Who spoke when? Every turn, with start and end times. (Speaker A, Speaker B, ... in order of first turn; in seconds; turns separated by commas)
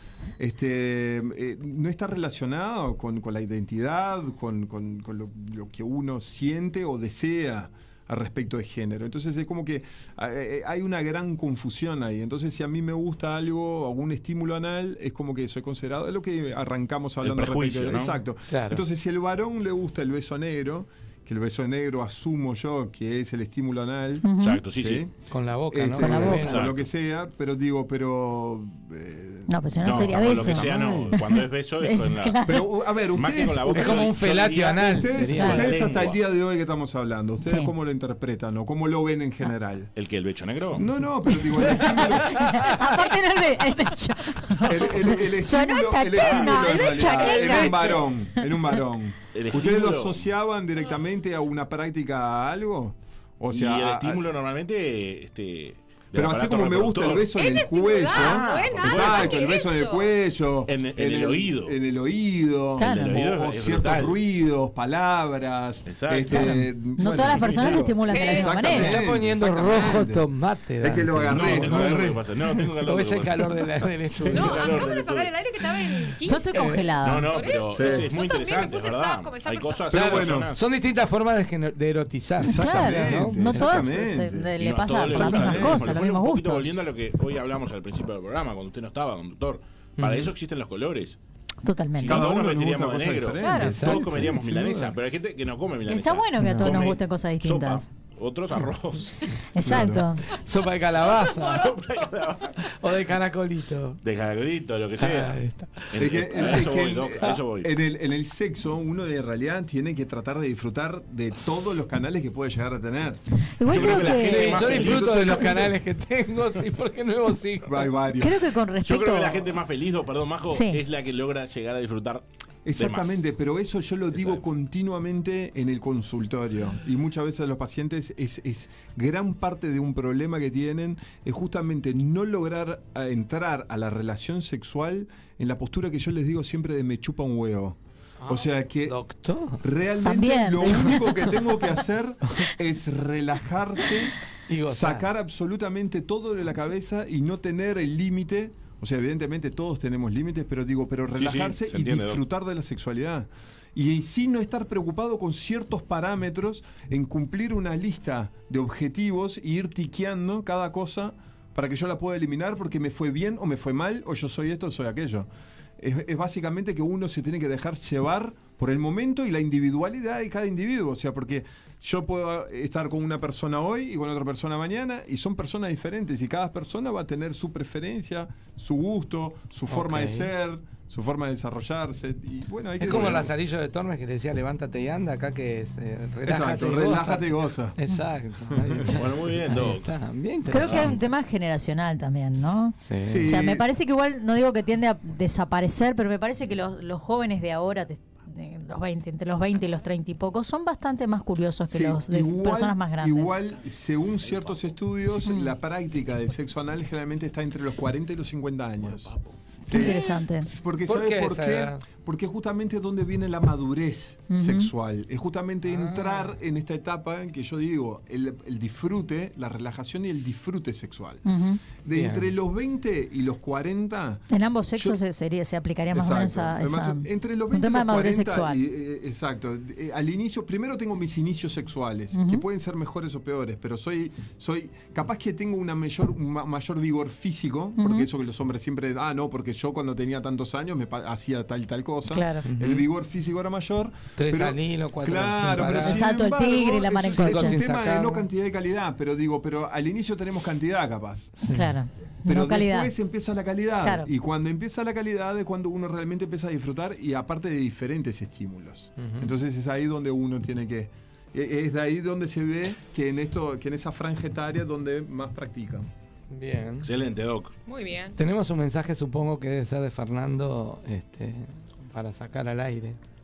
Speaker A: 0.4-25.1, Speaker B: 17.2-18.2, Speaker C: 18.5-18.8, Speaker D: 24.2-24.6, Speaker B: 24.4-25.1, Speaker C: 25.2-26.7, Speaker A: 25.7-31.0, Speaker D: 26.0-26.5, Speaker B: 26.2-26.8, Speaker D: 29.5-32.7, Speaker B: 29.8-36.2, Speaker A: 32.5-34.2, Speaker C: 33.7-35.8, Speaker A: 34.8-39.9, Speaker B: 40.0-40.9, Speaker A: 40.7-42.8, Speaker D: 42.1-48.0, Speaker A: 44.6-54.2, Speaker B: 46.2-47.9, Speaker B: 49.3-50.3, Speaker B: 53.5-57.3, Speaker A: 56.1-70.3, Speaker E: 57.3-60.1, Speaker B: 58.1-59.5, Speaker B: 60.7-61.8, Speaker D: 62.8-63.1, Speaker B: 62.8-64.2, Speaker B: 65.9-66.5, Speaker D: 66.3-69.0, Speaker E: 68.1-68.7, Speaker C: 68.6-71.8, Speaker A: 70.8-72.3, Speaker B: 71.3-75.3, Speaker C: 72.8-74.8, Speaker E: 74.3-80.0, Speaker D: 76.2-77.4, Speaker B: 76.7-80.7, Speaker A: 77.7-78.1, Speaker A: 79.9-80.5, Speaker C: 80.1-83.8, Speaker A: 82.4-84.5, Speaker D: 82.5-86.8, Speaker B: 84.6-91.2, Speaker A: 85.1-86.0, Speaker C: 90.0-90.3, Speaker D: 91.6-92.2, Speaker B: 91.9-99.2, Speaker A: 92.0-94.9, Speaker D: 93.4-93.8, Speaker C: 93.7-94.2, Speaker D: 95.8-97.8, Speaker C: 96.4-96.7, Speaker D: 99.5-100.2, Speaker A: 99.6-100.1, Speaker C: 100.3-101.7, Speaker B: 101.2-102.6, Speaker C: 102.7-104.0, Speaker B: 104.0-105.4, Speaker C: 105.0-106.6, Speaker B: 105.9-107.7, Speaker A: 106.0-113.2, Speaker D: 113.6-114.9, Speaker B: 113.7-115.7, Speaker C: 114.1-117.9, Speaker A: 117.6-118.5, Speaker D: 118.2-119.5, Speaker B: 118.8-123.2, Speaker D: 120.5-120.8, Speaker A: 122.6-139.0, Speaker B: 124.2-124.4, Speaker C: 138.2-139.6, Speaker A: 139.6-183.3, Speaker D: 140.0-141.2, Speaker C: 144.5-145.1, Speaker B: 151.2-152.2, Speaker C: 179.7-180.3, Speaker C: 182.8-191.0, Speaker A: 186.2-187.8, Speaker A: 188.5-188.9, Speaker B: 188.8-189.9, Speaker D: 190.5-203.4, Speaker B: 190.5-190.9, Speaker C: 192.8-193.3, Speaker A: 193.0-193.7, Speaker A: 201.7-209.1, Speaker B: 204.3-204.6, Speaker D: 205.2-205.5, Speaker B: 208.8-209.3, Speaker A: 209.7-221.2, Speaker D: 209.7-210.5, Speaker C: 209.7-210.1, Speaker C: 210.8-211.8, Speaker D: 214.3-214.7, Speaker C: 215.7-216.3, Speaker D: 221.2-221.6, Speaker A: 221.8-224.2, Speaker C: 221.9-222.3, Speaker D: 224.3-228.6, Speaker A: 224.7-225.0, Speaker A: 225.9-251.3, Speaker D: 232.1-232.4, Speaker D: 237.8-238.1, Speaker D: 242.1-242.4, Speaker C: 242.5-242.9, Speaker C: 244.2-246.1, Speaker D: 245.6-247.6, Speaker C: 247.1-248.2, Speaker C: 251.4-251.7, Speaker D: 251.4-252.9, Speaker A: 252.3-265.9, Speaker D: 253.8-254.1, Speaker C: 259.0-259.3, Speaker C: 266.3-266.9, Speaker B: 266.8-267.5, Speaker E: 267.7-268.1, Speaker C: 268.1-273.0